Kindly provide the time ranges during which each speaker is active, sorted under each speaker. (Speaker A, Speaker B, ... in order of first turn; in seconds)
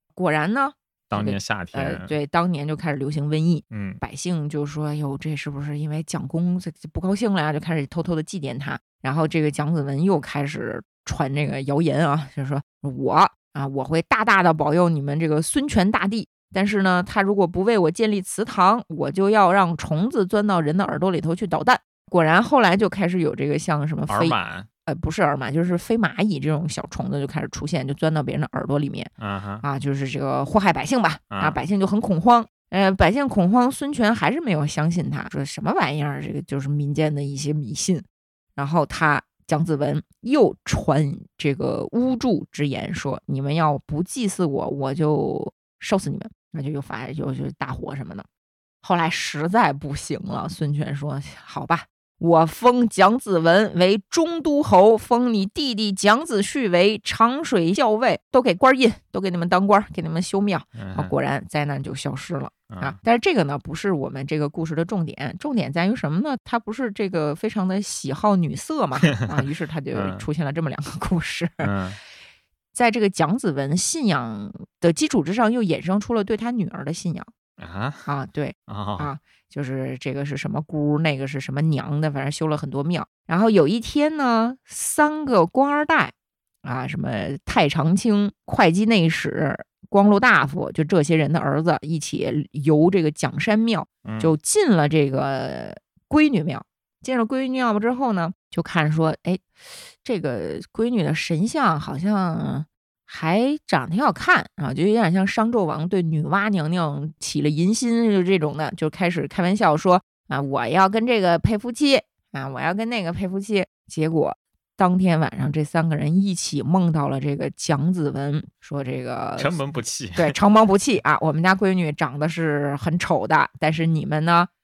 Speaker A: 0.1-29.1, 29.6-38.0, 38.5-48.2, 48.8-71.7, 72.7-77.3, 78.0-99.4, 100.0-119.6, 120.1-124.5
Speaker B: 1.1-2.1, 3.7-4.0, 24.1-24.7, 29.2-29.6, 31.3-31.6, 60.8-61.1, 62.7-63.0, 69.9-70.2, 71.6-72.0, 77.6-78.1, 78.7-79.1, 94.0-94.3, 119.4-120.3